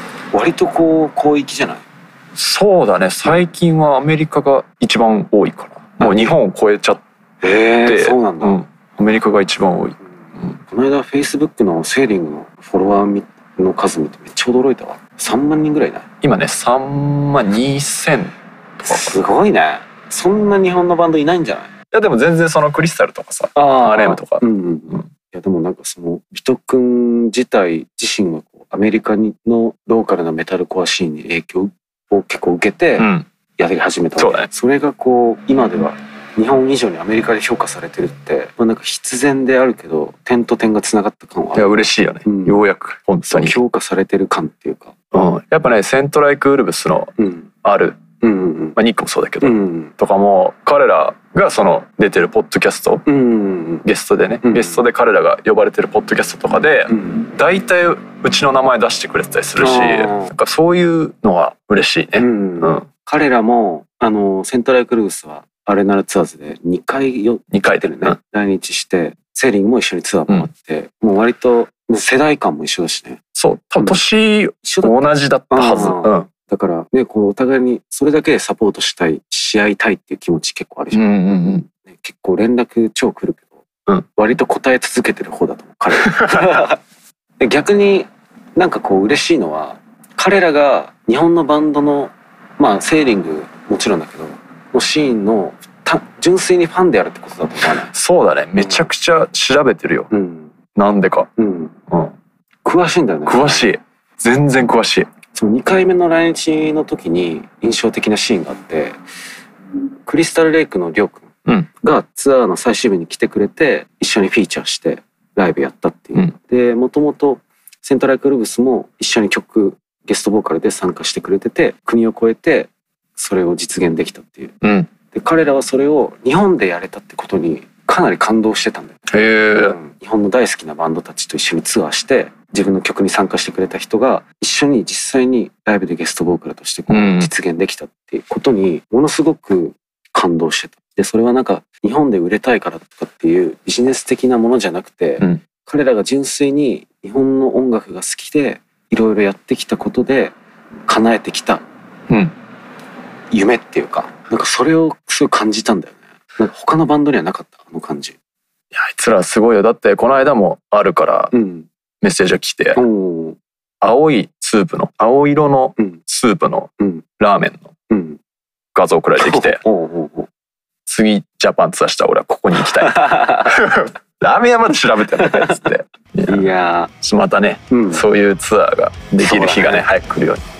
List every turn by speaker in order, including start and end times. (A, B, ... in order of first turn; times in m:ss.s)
0:00.3-0:01.8 A
0:02.4-0:07.0 B
0:06.0-0:06.3 A
0:07.4-0:08.6 A
0:07.8-0:10.6 B
0:10.6-0:16.1 A
0:16.2-0:19.3 B
0:18.9-0:21.7 A
0:21.9-0:25.0 B
0:23.5-0:42.6 A
0:33.0-0:33.3 B
0:34.2-0:34.5 B
0:41.5-0:43.6 B
0:43.3-0:44.9 A
0:45.1-0:47.1 B
0:47.2-0:47.5 A
0:47.6-0:48.0 B
0:48.2-0:48.8 A
0:48.8-0:53.0 B
0:49.4-0:49.9 A
0:53.0-0:53.8 A
0:53.8-1:02.8 B
0:54.4-0:54.8 A
0:56.9-0:57.3 A
0:59.6-1:00.3 A
1:02.2-1:13.2 A
1:07.5-1:08.2 B
1:13.3-1:16.3 B
1:14.6-1:23.6 A
1:20.9-1:21.6 B
1:24.1-1:26.8 A
1:26.0-1:26.5 B
1:27.4-1:37.9 A
1:37.9-1:40.1 B
1:38.6-1:38.9 A
1:40.1-1:40.5 A
1:40.7-1:41.3 B
1:41.4-1:41.7 A
1:42.6-1:43.7 A
1:43.2-1:45.1 B
1:45.3-1:49.0 A
1:50.0-2:04.5 A
2:04.6-2:04.9 B
2:05.1-2:09.0 A
2:09.1-2:09.8 B
2:09.5-2:30.3 A
2:16.9-2:17.3 B
2:30.9-2:31.6 A
2:33.3-2:38.2 A
2:38.7-2:41.3 B
2:41.3-2:41.7 A
2:42.0-2:42.8 B
2:42.7-2:43.4 A
2:43.8-2:47.7 B
2:46.8-2:47.0 A
2:47.9-2:48.2 A
2:48.7-2:49.6 B
2:49.2-2:50.3 A
2:50.9-2:56.5 B
2:52.6-2:53.6 A
2:55.1-2:55.7 A
2:56.3-2:56.9 A
2:57.0-3:00.4 B
2:57.7-2:58.0 A
2:59.2-2:59.9 A